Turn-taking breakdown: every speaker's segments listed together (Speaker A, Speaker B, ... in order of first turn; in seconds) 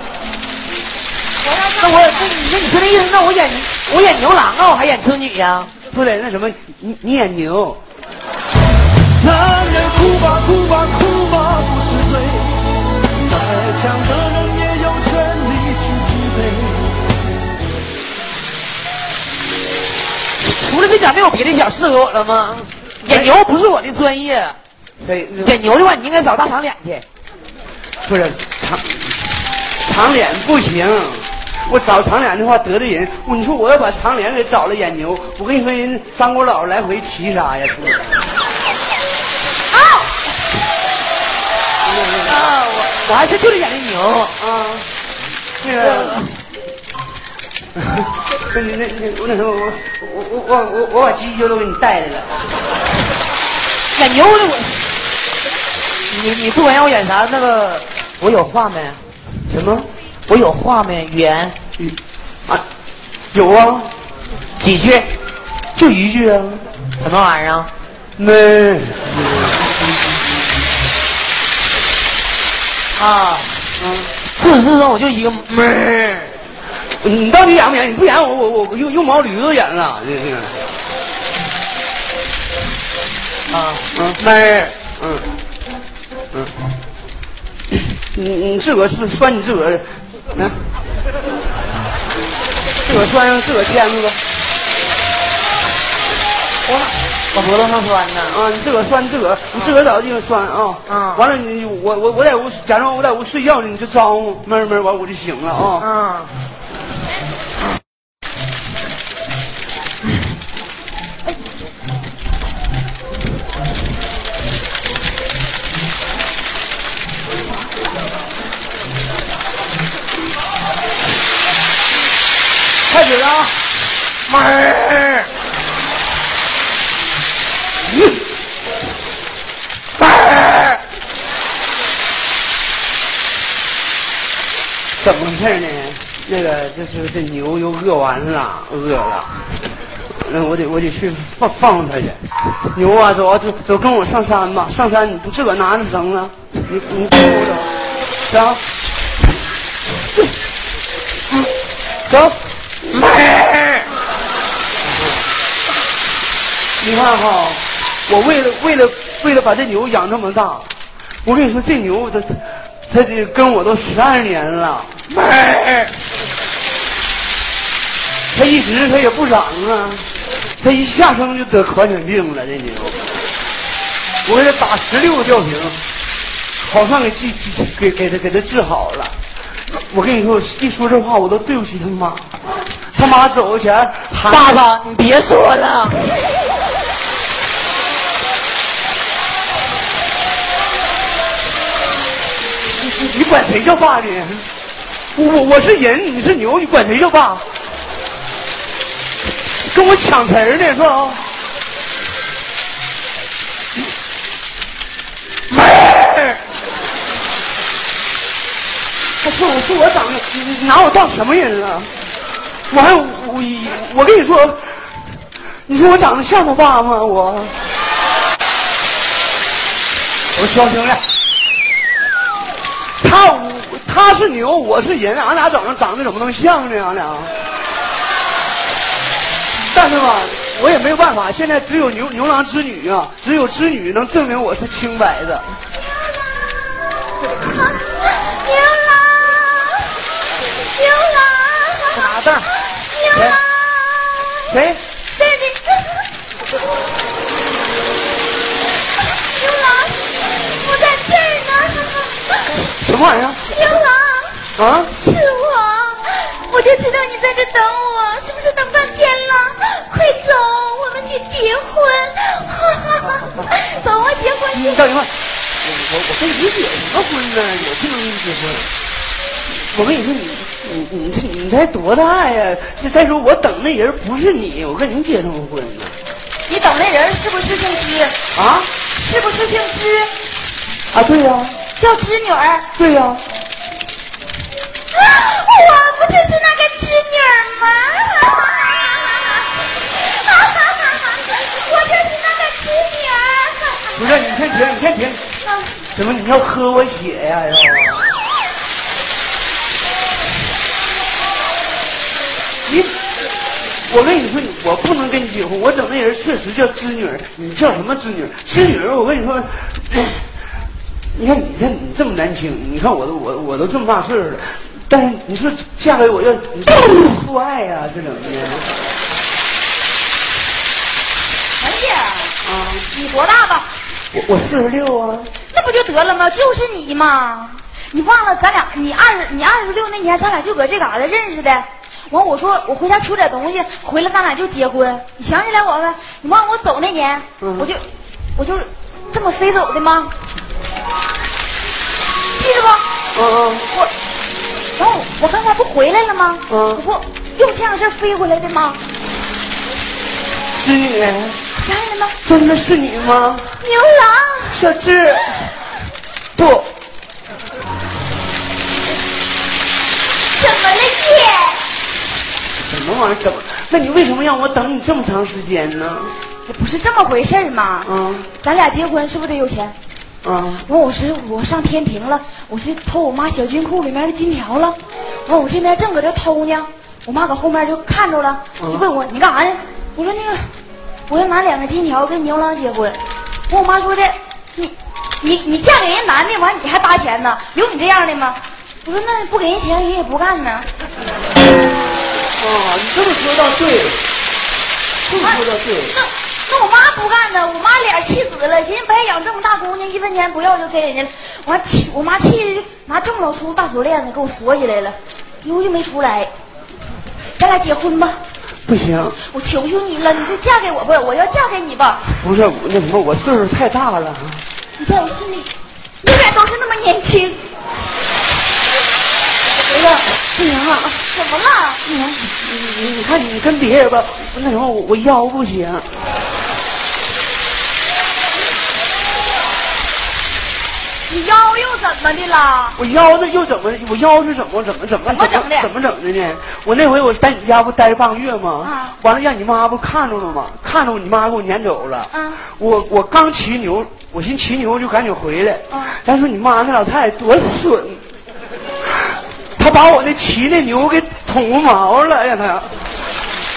Speaker A: 1.4-2.4, 39.7-40.3, 237.4-239.9, 240.6-242.2, 242.7-244.5, 245.2-246.1, 249.0-252.6, 253.5-264.8, 276.5-278.2, 279.0-280.1, 281.8-282.7, 284.9-294.3, 295.4-295.8, 321.6-322.4, 322.9-323.7, 325.5-337.9, 338.4-340.1, 342.4-342.9, 344.8-348.8, 351.6-352.2, 353.6-354.6, 360.3-361.6, 366.5-369.8, 370.6-380.5, 381.1-390.7, 395.2-406.3, 407.4-408.2, 409.2-412.1, 414.8-415.5, 416.0-417.4, 420.9-421.8, 431.1-432.8, 435.1-435.7, 438.6-439.0, 442.1-442.4, 445.7-446.0
Speaker B: 1.8-5.7, 20.4-24.6, 25.4-27.0, 42.2-44.4, 45.8-46.4, 53.9-54.9, 56.1-59.0, 60.3-61.6, 64.6-65.1, 67.0-67.7, 73.0-73.6, 74.4-76.3, 83.5-84.8, 96.7-98.4, 100.9-101.2, 105.8-106.3, 124.3-125.3, 130.0-130.8, 152.9-153.9, 165.1-165.9, 184.3-186.0, 205.5-206.4, 241.9-242.5
Speaker C: 5.9-7.8, 9.2-17.0, 23.1-23.3, 25.0-25.6, 28.0-29.2, 29.9-38.2, 41.8-42.4, 44.4-44.9, 45.6-46.3, 47.8-52.3, 59.5-59.9, 63.3-63.9, 65.8-66.7, 68.2-69.6, 73.8-74.1, 77.0-80.6, 83.9-84.2, 85.0-85.3, 88.1-90.6, 92.8-94.2, 98.3-105.9, 122.9-123.5, 135.0-139.4, 140.1-147.7, 148.3-148.6, 152.1-152.4, 156.8-160.7, 161.2-165.0, 168.3-170.1, 170.6-173.0, 174.2-175.8, 176.6-179.2, 179.9-182.2, 182.9-184.6, 192.8-194.5, 195.1-197.4, 199.5-201.2, 209.2-211.9, 212.7-214.9, 215.7-217.6, 220.3-221.0, 223.0-227.3, 229.7-235.6, 243.1-243.4, 244.5-244.8, 252.8-253.5, 254.6-254.9, 264.5-268.7, 269.5-276.0, 278.3-278.7, 280.9-281.6, 282.8-283.2, 293.9-295.2, 295.9-298.2, 302.6-302.9, 303.9-310.2, 311.1-318.7, 322.4-322.9, 324.1-325.3, 337.4-337.7, 343.1-343.7, 346.5-346.8, 350.5-351.4, 352.2-353.5, 354.5-355.5, 356.4-356.7, 362.6-366.1, 367.8-368.3, 370.2-370.7, 392.4-394.1, 395.1-395.9, 408.7-409.2, 412.2-414.4, 419.7-420.9, 421.9-425.9, 432.8-448.0, 449.6-452.7